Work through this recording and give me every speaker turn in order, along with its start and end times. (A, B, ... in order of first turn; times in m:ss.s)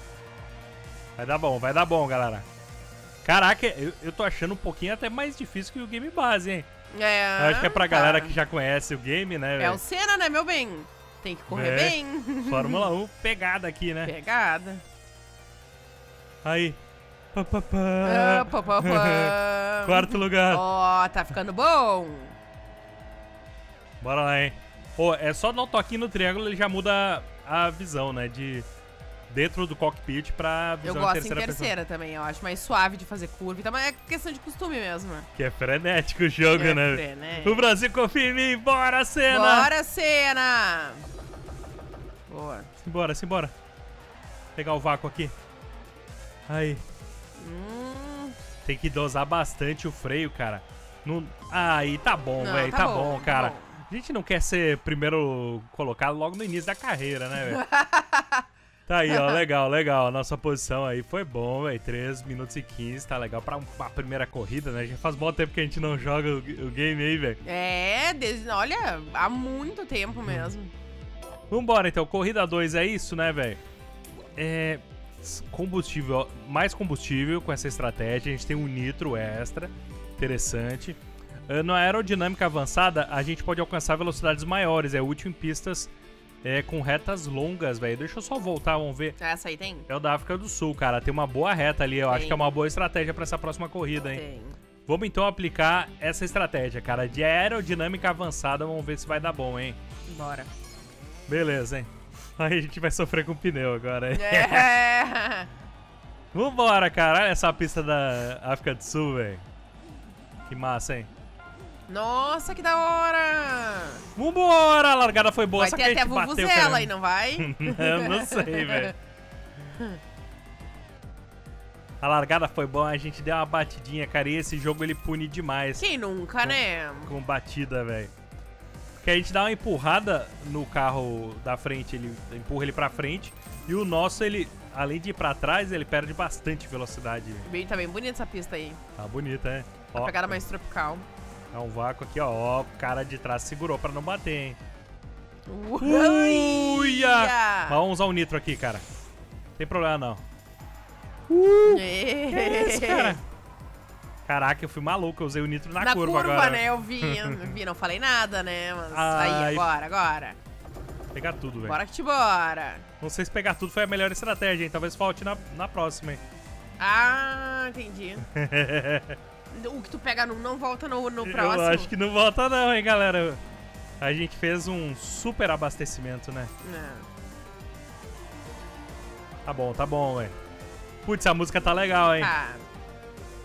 0:01.2-0:02.4 A
0:03.2-0:06.7 A
0:06.9-0:08.4 B
0:07.4-0:09.8 A
0:09.6-0:12.9 B
0:11.5-0:14.1 A
0:14.0-0:14.8 B
0:16.4-0:16.8 A
0:17.3-0:20.6 A
0:18.0-0:22.4 B
0:24.0-0:28.7 A
0:29.3-0:31.7 A
0:30.8-0:35.3 B
0:35.4-0:39.7 A
0:36.5-0:37.6 B
0:39.3-0:41.1 B
0:42.3-0:42.7 B
0:42.8-0:43.5 A
0:44.6-0:45.3 A
0:46.5-0:46.8 A
0:47.4-0:48.4 B
0:48.6-0:57.6 A
0:52.4-0:53.7 B
0:57.4-0:58.4 B
0:58.9-1:07.4 A
0:59.1-0:59.4 B
1:07.4-1:10.7 B
1:11.5-1:13.6 A
1:14.4-1:25.9 A
1:26.4-1:29.2 A
1:29.2-1:29.9 B
1:29.9-1:34.2 A
1:32.1-1:32.5 B
1:34.1-1:34.6 B
1:34.8-1:39.8 A
1:40.1-1:40.5 B
1:41.3-1:44.7 A
1:44.1-1:45.5 B
1:46.3-1:49.4 A
1:50.5-1:51.1 A
1:51.9-1:54.1 B
1:54.1-1:58.9 A
1:55.6-1:58.9 B
1:59.7-2:00.0 B
2:02.0-2:05.8 A
2:05.8-2:07.1 B
2:06.4-2:08.1 A
2:09.0-2:17.5 A
2:17.4-2:18.8 B
2:19.0-2:20.4 A
2:19.9-2:21.0 B
2:21.5-2:24.6 A
2:25.5-2:27.8 B
2:25.8-2:28.8 A
2:29.6-2:30.2 A
2:31.3-2:33.2 A
2:31.6-2:33.2 B
2:34.2-2:37.5 A
2:35.8-2:40.4 B
2:38.9-2:39.7 A
2:41.1-2:41.8 A
2:41.6-2:42.9 B
2:43.0-2:46.2 A
2:46.8-2:48.3 B
2:48.3-2:49.2 A
2:49.5-2:51.9 B
2:51.2-2:53.4 A
2:54.0-2:56.5 A
2:56.6-2:57.1 B
2:59.4-3:00.3 A
3:01.0-3:02.3 A
3:02.1-3:02.7 B